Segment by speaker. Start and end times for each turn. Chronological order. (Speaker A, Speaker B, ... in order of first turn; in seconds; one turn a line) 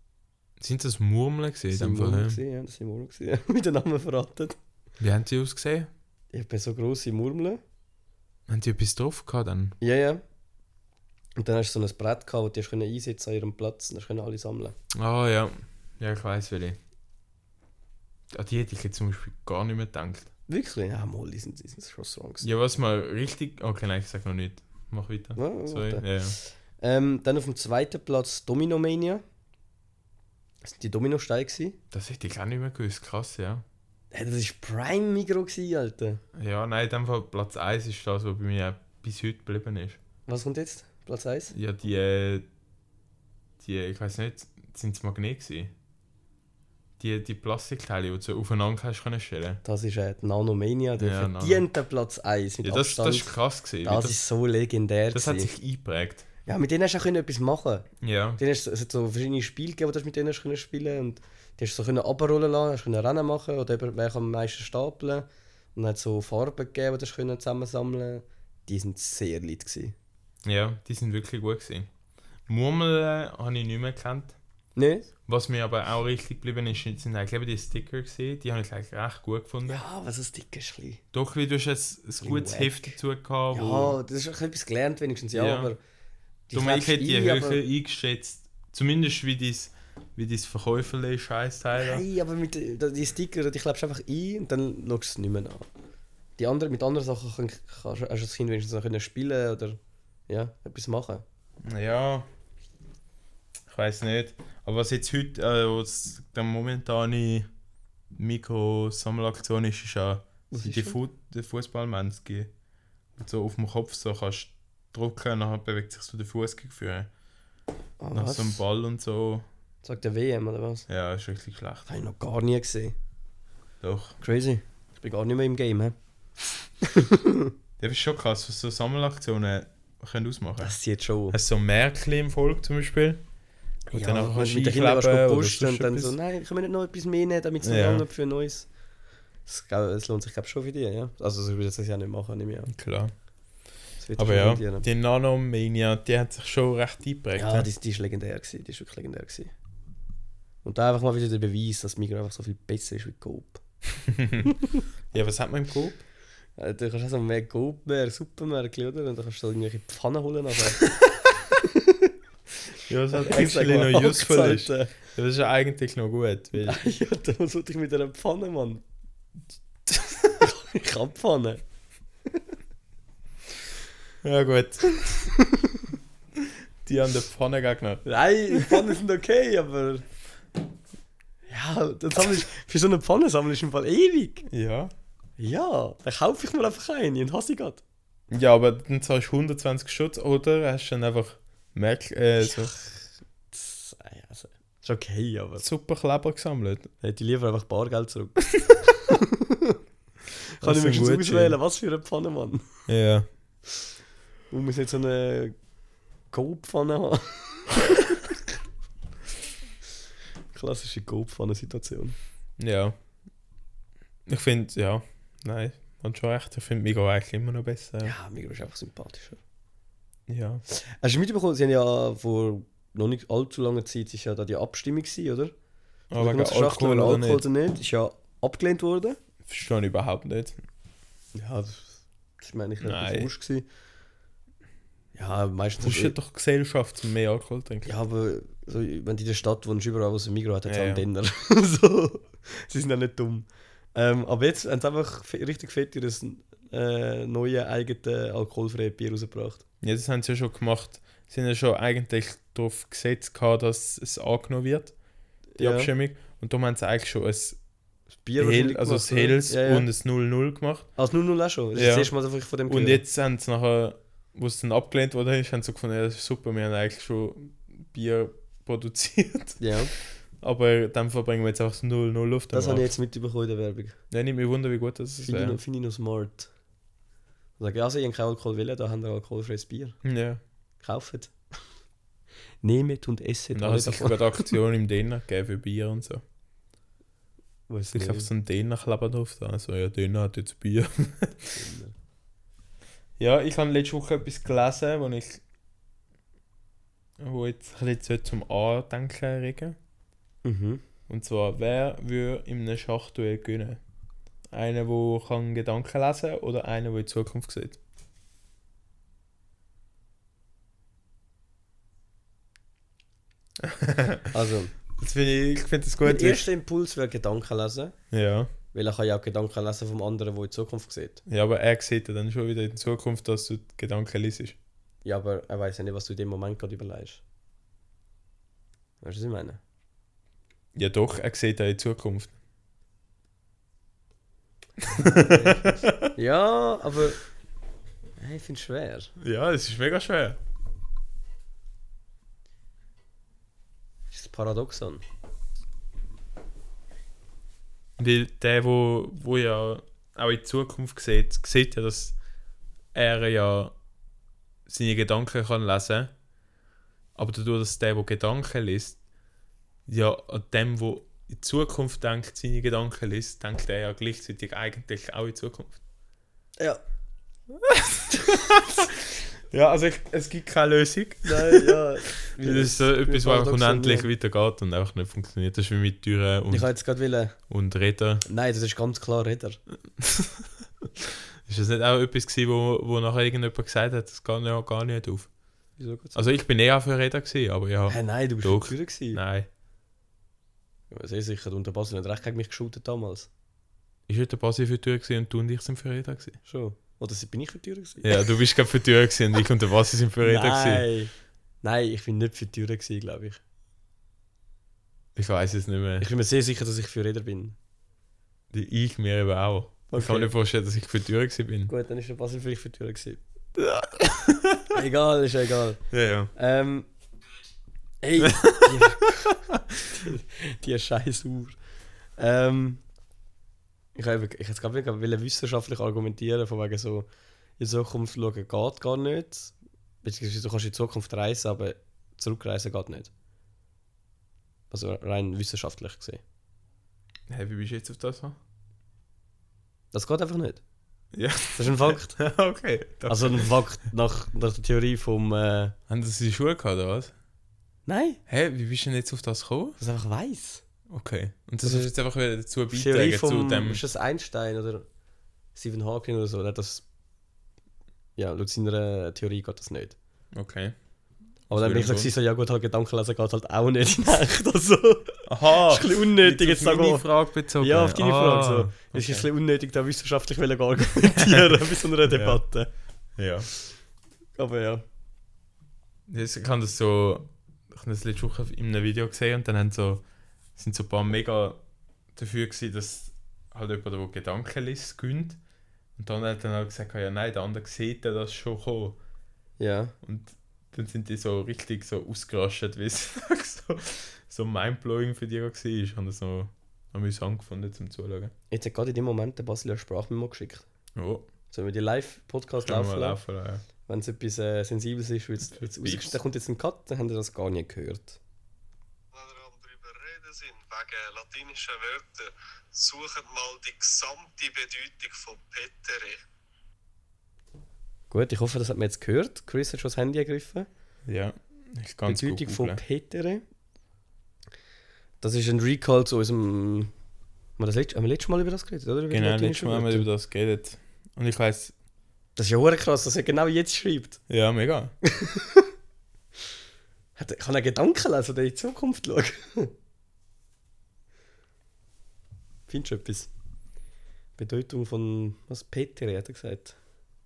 Speaker A: 0.6-2.4
Speaker B: 1.7-4.6
Speaker A: 5.0-5.9
Speaker B: 6.3-7.6
Speaker A: 8.5-9.8
Speaker B: 9.8-10.2
Speaker B: 11.3-14.7
Speaker A: 14.9-16.8
Speaker A: 18.3-20.3
Speaker B: 20.5-22.4
Speaker A: 22.4-26.4
Speaker B: 25.4-29.2
Speaker B: 30.6-31.8
Speaker A: 31.9-33.6
Speaker B: 34.1-36.2
Speaker A: 36.3-40.0
Speaker B: 40.3-41.5
Speaker A: 41.5-42.5
Speaker A: 43.6-45.7
Speaker A: 47.0-49.6
Speaker B: 49.6-53.3
Speaker A: 51.0-51.7
Speaker A: 52.6-54.2
Speaker B: 53.8-55.5
Speaker A: 55.1-56.2
Speaker B: 56.5-69.9
Speaker A: 58.0-58.4
Speaker A: 70.4-71.9
Speaker A: 72.5-74.3
Speaker B: 74.8-75.1
Speaker A: 75.3-79.8
Speaker B: 79.7-81.0
Speaker A: 81.1-84.0
Speaker B: 82.2-82.9
Speaker B: 83.5-85.8
Speaker A: 85.3-85.7
Speaker B: 86.5-87.6
Speaker A: 86.5-92.0
Speaker B: 91.7-95.7
Speaker B: 96.4-101.2
Speaker A: 101.6-102.3
Speaker A: 103.7-107.5
Speaker A: 108.1-112.5
Speaker B: 110.5-111.0
Speaker A: 113.2-117.1
Speaker B: 118.0-118.6
Speaker A: 118.1-119.5
Speaker B: 119.8-120.8
Speaker A: 120.9-121.9
Speaker B: 121.9-122.9
Speaker A: 123.8-124.2
Speaker B: 124.2-126.0
Speaker B: 126.8-127.5
Speaker A: 127.8-130.7
Speaker B: 130.6-131.3
Speaker A: 131.3-133.2
Speaker B: 133.9-138.7
Speaker A: 133.9-136.1
Speaker A: 137.6-138.0
Speaker B: 139.4-142.7
Speaker A: 142.7-143.1
Speaker B: 144.0-144.8
Speaker A: 144.2-147.7
Speaker B: 147.4-149.5
Speaker B: 150.6-153.6
Speaker A: 154.1-154.5
Speaker A: 155.1-156.0
Speaker B: 156.6-160.8
Speaker B: 161.5-162.1
Speaker A: 162.8-166.8
Speaker B: 163.1-164.9
Speaker B: 166.6-168.8
Speaker A: 169.9-170.3
Speaker B: 170.4-171.6
Speaker A: 174.2-175.3
Speaker B: 175.4-175.9
Speaker A: 176.8-178.8
Speaker B: 178.0-180.0
Speaker B: 181.5-184.4
Speaker A: 184.4-184.9
Speaker B: 185.4-187.8
Speaker A: 188.3-192.7
Speaker B: 192.4-195.6
Speaker A: 195.6-196.9
Speaker B: 197.0-199.8
Speaker B: 200.6-202.7
Speaker A: 200.6-201.6
Speaker A: 202.9-203.3
Speaker B: 204.5-205.5
Speaker B: 206.3-208.2
Speaker B: 210.5-212.2
Speaker A: 212.6-212.9
Speaker A: 214.3-218.1
Speaker B: 218.0-219.4
Speaker A: 220.3-220.6
Speaker B: 220.7-225.5
Speaker A: 226.1-227.4
Speaker B: 226.2-229.2
Speaker A: 229.4-230.6
Speaker B: 231.3-233.7
Speaker A: 232.8-233.3
Speaker B: 235.1-236.2
Speaker A: 235.8-237.9
Speaker B: 237.8-249.6
Speaker A: 240.7-241.0
Speaker A: 249.8-254.9
Speaker B: 255.6-255.9
Speaker A: 255.6-257.6
Speaker B: 258.2-259.9
Speaker A: 258.4-260.9
Speaker B: 261.0-263.0
Speaker A: 261.8-262.1
Speaker A: 262.7-272.9
Speaker B: 269.6-269.9
Speaker B: 272.5-274.0
Speaker A: 274.1-275.6
Speaker B: 275.2-276.5
Speaker B: 277.6-280.0
Speaker A: 280.0-280.4
Speaker B: 280.8-281.4
Speaker B: 282.6-284.5
Speaker A: 283.5-286.2
Speaker B: 287.7-288.3
Speaker A: 287.9-291.6
Speaker B: 291.6-291.9
Speaker A: 293.2-295.4
Speaker A: 297.2-299.8
Speaker B: 300.4-300.8
Speaker A: 301.1-303.8
Speaker A: 304.5-307.8
Speaker A: 313.6-314.3
Speaker B: 314.3-314.7
Speaker A: 315.0-316.5
Speaker B: 316.0-317.9
Speaker A: 318.1-318.5
Speaker B: 318.7-321.2
Speaker A: 321.3-324.6
Speaker B: 325.0-327.2
Speaker B: 329.0-329.6
Speaker A: 330.7-332.3
Speaker A: 334.8-336.1
Speaker B: 335.1-337.2
Speaker B: 338.2-339.1
Speaker A: 339.2-340.4
Speaker B: 344.1-345.0
Speaker A: 348.0-352.1
Speaker A: 352.9-353.7
Speaker A: 354.7-356.1
Speaker A: 357.1-359.0
Speaker A: 359.9-365.8
Speaker A: 367.7-376.7
Speaker B: 371.2-374.1
Speaker B: 376.5-377.4
Speaker A: 377.5-378.2
Speaker B: 378.2-379.6
Speaker A: 380.0-380.5
Speaker A: 381.4-385.3
Speaker B: 385.8-386.2
Speaker A: 386.1-389.5
Speaker B: 387.9-389.2
Speaker B: 390.9-393.3
Speaker A: 394.1-396.4
Speaker B: 396.4-398.2
Speaker A: 398.0-400.9
Speaker B: 400.2-403.4
Speaker A: 405.1-406.1
Speaker B: 406.0-407.6
Speaker A: 408.5-411.7
Speaker B: 409.9-410.3
Speaker B: 411.7-413.2
Speaker A: 413.6-414.7
Speaker B: 414.7-416.9
Speaker A: 415.9-416.3
Speaker B: 418.0-419.3
Speaker A: 418.2-419.6
Speaker B: 419.9-421.6
Speaker B: 422.2-422.8
Speaker B: 423.9-427.1
Speaker B: 427.6-433.1
Speaker B: 434.7-436.2
Speaker A: 437.3-438.4
Speaker B: 439.9-440.6
Speaker A: 441.1-443.5
Speaker B: 441.5-442.2
Speaker B: 443.1-445.7
Speaker A: 445.9-447.1
Speaker B: 447.9-448.2
Speaker A: 448.3-449.8
Speaker B: 449.8-450.6
Speaker A: 450.9-453.8
Speaker B: 451.6-451.9
Speaker B: 452.7-454.9
Speaker B: 455.5-456.8
Speaker B: 458.1-459.9
Speaker A: 460.3-460.8
Speaker A: 461.5-462.1
Speaker B: 461.5-472.7
Speaker A: 465.2-469.3
Speaker A: 471.1-471.4
Speaker A: 472.1-472.4
Speaker A: 473.2-473.5
Speaker B: 474.4-474.8
Speaker A: 476.1-480.0
Speaker A: 480.5-481.6
Speaker A: 482.1-485.4
Speaker A: 485.9-489.0
Speaker B: 489.6-489.9
Speaker A: 490.0-498.3
Speaker B: 498.5-500.6
Speaker A: 500.9-501.3
Speaker B: 501.5-503.2
Speaker A: 502.6-503.6
Speaker B: 503.8-508.2
Speaker A: 505.6-506.2
Speaker C: 509.1-516.2
Speaker B: 518.1-520.7
Speaker A: 521.0-522.8
Speaker B: 522.0-523.4
Speaker B: 525.2-526.9
Speaker B: 527.6-530.0
Speaker A: 529.1-531.7
Speaker B: 532.4-534.2
Speaker A: 534.3-534.9
Speaker B: 535.0-535.7
Speaker B: 537.1-539.7
Speaker B: 542.7-543.3
Speaker B: 544.4-546.8